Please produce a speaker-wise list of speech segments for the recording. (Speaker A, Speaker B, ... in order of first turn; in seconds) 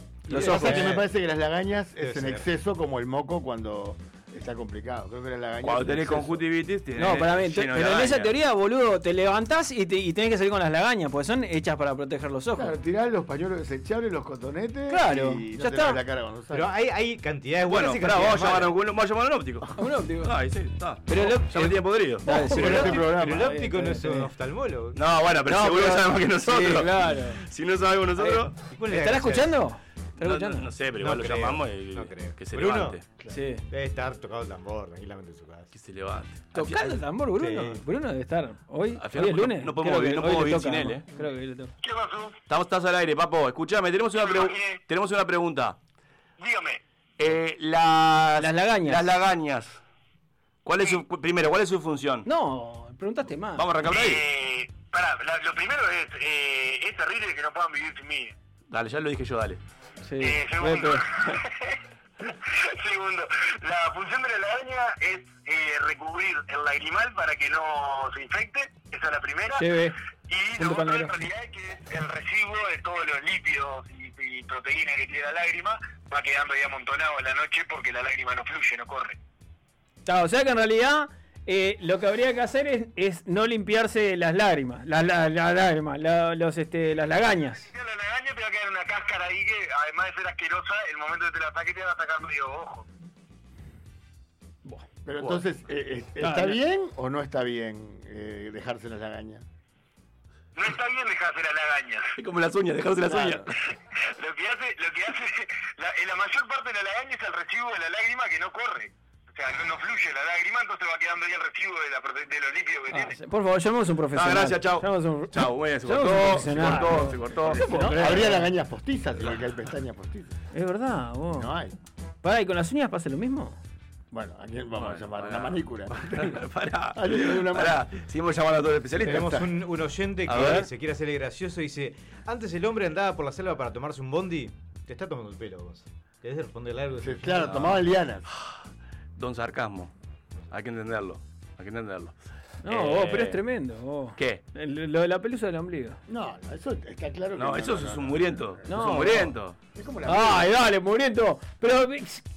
Speaker A: 0.3-0.9, 7.0-12.8, 14.9-16.0, 19.8-20.3, 21.1-24.3, 25.5-27.4, 28.2-30.7, 33.3-33.6, 36.5-41.7, 48.4-49.1, 52.2-53.7, 60.0-61.1, 69.6-70.0, 70.6-71.3, 80.1-87.7, 96.2-96.6, 103.1-103.4, 112.9-118.5, 120.5-121.5, 122.2-123.6, 142.6-146.0, 148.7-149.3, 150.1-152.2
Speaker B: 0.3-1.1, 2.0-2.5, 16.5-18.7, 22.4-25.0, 28.6-29.6, 31.0-33.0, 33.7-35.7, 37.4-37.8, 129.1-137.7
Speaker C: 0.3-6.4, 12.6-16.7, 22.5-23.5, 95.1-99.5, 116.5-120.4, 121.3-121.8, 124.1-126.4, 127.0-127.8, 129.0-129.5, 137.0-138.3, 146.1-149.0, 149.8-150.5
Speaker D: 5.6-8.3, 17.7-22.3, 24.9-28.6, 30.2-33.0, 35.7-37.0, 39.0-41.0, 42.5-45.8, 47.2-49.8, 50.6-52.3, 53.6-54.2, 58.7-59.6, 102.2-103.5, 114.1-118.0, 124.8-129.3, 130.3-130.7, 139.2-139.9, 140.5-142.1, 142.7-143.4, 147.3-149.6
Speaker E: 41.8-42.4, 44.2-44.8, 46.4-46.8, 53.9-58.4, 60.2-69.7, 70.3-79.2, 87.6-92.9, 100.6-102.2, 103.9-113.2